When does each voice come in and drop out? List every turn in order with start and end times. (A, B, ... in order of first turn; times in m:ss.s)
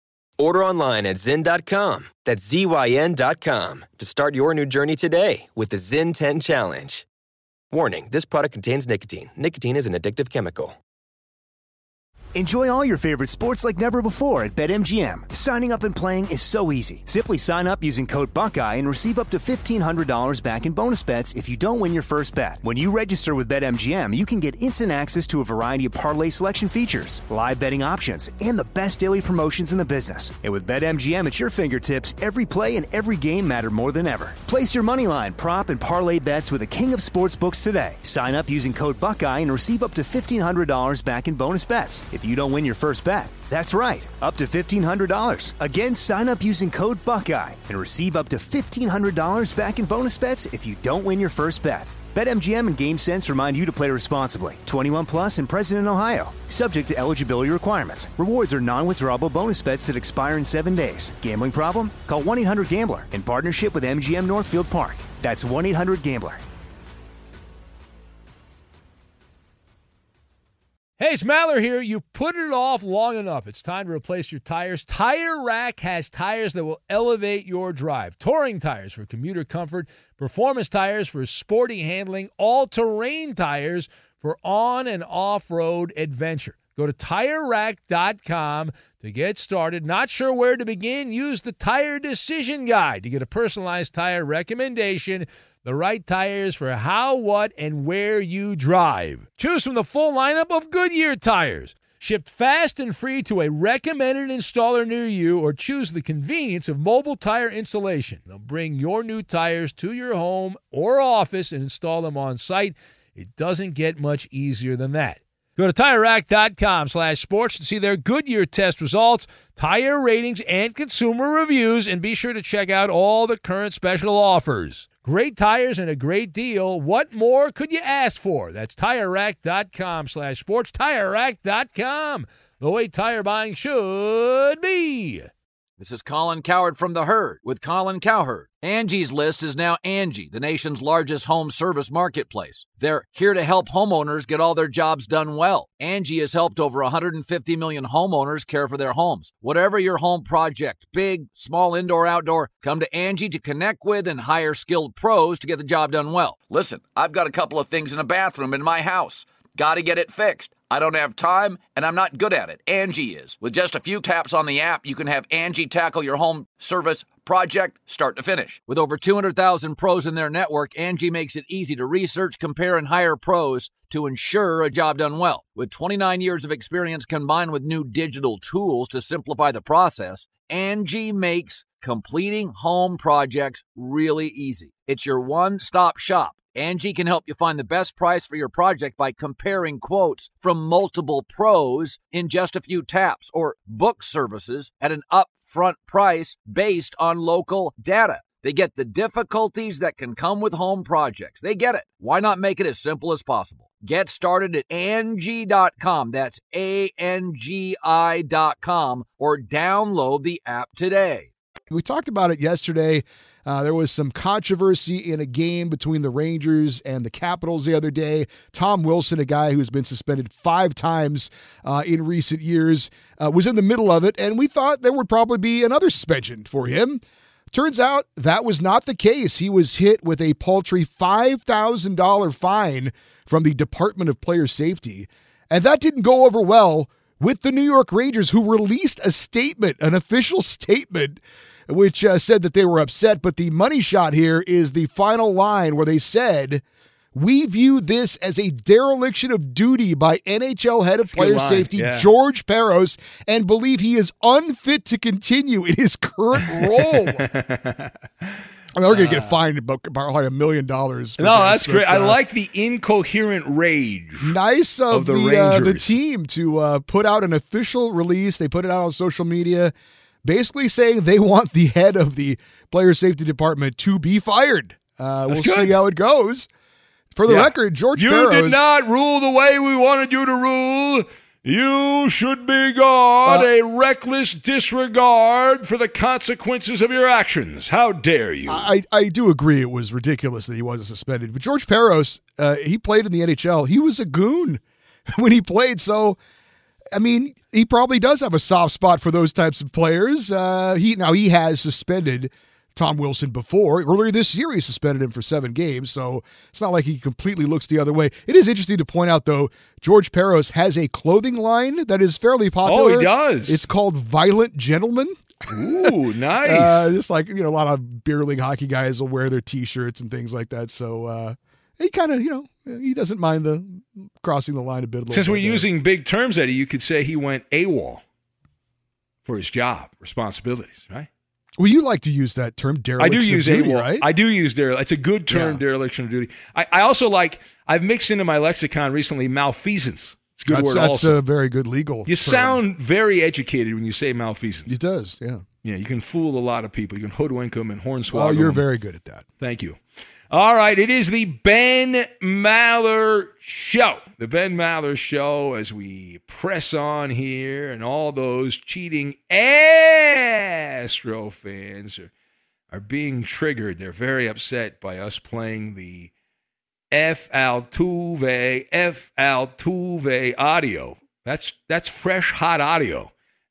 0:00.4-0:07.1 A
0:07.7-0:10.8 A
0:12.4-1:06.4 B
1:11.0-2:15.3 C
2:15.8-3:31.3 D
3:31.7-4:06.6 E
4:07.1-4:17.2 E
4:11.1-4:12.1 C
4:16.5-4:18.3 C
4:18.8-4:22.2 E
4:18.9-4:19.4 C
4:21.2-4:24.4 C
4:24.2-4:29.7 E
4:24.9-4:26.0 C
4:30.2-4:36.5 E
4:35.3-4:35.8 C
4:37.2-4:38.6 E
4:37.3-4:48.7 C
4:48.5-4:54.6 E
4:55.1-4:56.2 E
4:56.9-5:15.9 E
5:12.6-5:13.6 C
5:15.5-5:16.9 C
5:16.4-5:25.7 E
5:25.1-5:28.0 C
5:29.3-5:31.1 C
5:31.6-5:34.1 E
5:33.0-5:41.2 C
5:35.3-5:35.6 E
5:40.5-5:42.6 E
5:42.1-5:44.7 C
5:44.7-5:45.4 E
5:45.6-5:48.6 C
5:48.1-5:49.2 E
5:49.4-5:49.8 C
5:50.3-6:02.1 C
6:02.7-6:06.1 C
6:06.9-6:13.1 C